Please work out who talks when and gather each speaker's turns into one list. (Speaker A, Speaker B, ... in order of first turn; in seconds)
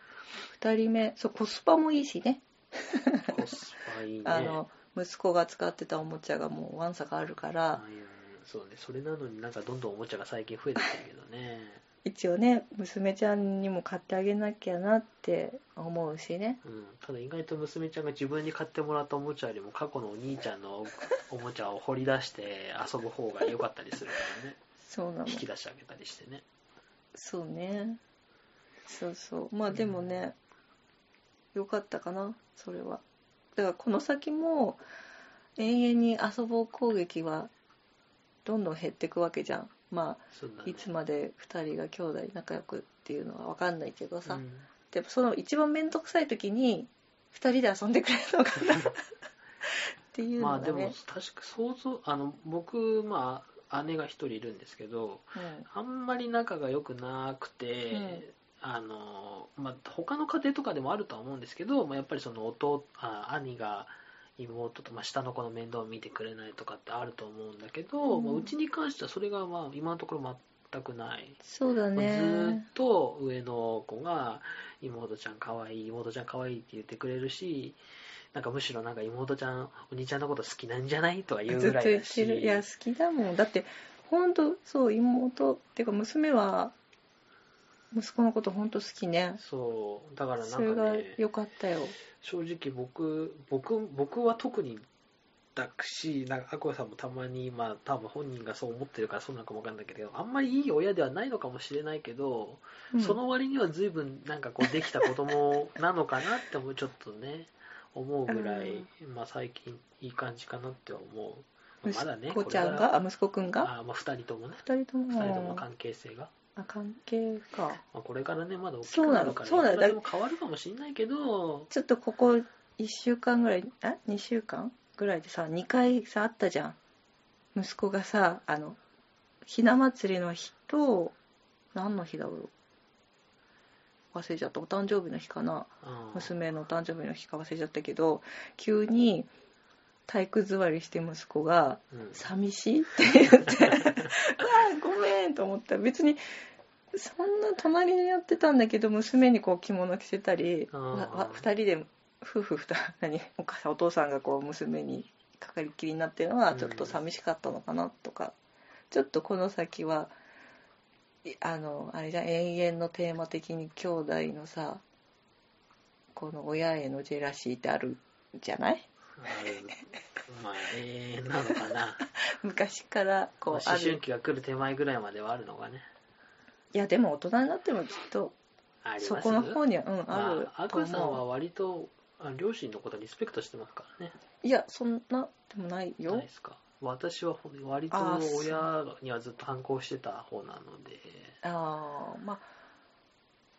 Speaker A: 0.5-3.3, 4.2-7.8, 12.0-16.6, 24.8-25.4, 27.1-28.0, 28.9-30.4, 31.5-33.0, 33.5-34.8, 35.6-37.5, 38.4-49.1, 50.1-51.0, 55.3-55.7, 57.9-58.2, 68.1-68.5, 71.4-72.7, 81.5-86.8, 87.9-89.4, 90.4-92.0, 102.9-103.2, 104.8-105.1, 108.3-108.9, 111.8-113.7, 114.6-115.7, 116.5-117.8, 118.8-120.0, 121.7-126.8, 127.5-128.8, 129.4-131.2, 131.7-132.5, 134.1-139.3, 140.1-146.2, 146.9-158.4, 158.9-160.1, 161.2-164.8, 166.1-168.9, 172.4-174.0, 176.7-178.4, 179.0-181.2, 184.4-186.3, 187.9-188.7, 191.4-192.5
Speaker B: 3.3-4.6, 7.7-11.8, 16.6-24.6, 25.3-26.4, 29.7-30.3, 40.3-40.9, 44.2-44.7, 50.4-71.4, 71.9-77.8, 78.3-82.6, 89.4-91.2, 92.1-94.8, 95.5-112.9, 113.6-116.3, 117.9-121.7, 135.8-136.3, 141.9-142.3, 150.7-151.5, 156.5-157.0, 169.2-172.0, 173.5-175.9, 178.8-184.2, 186.1-191.4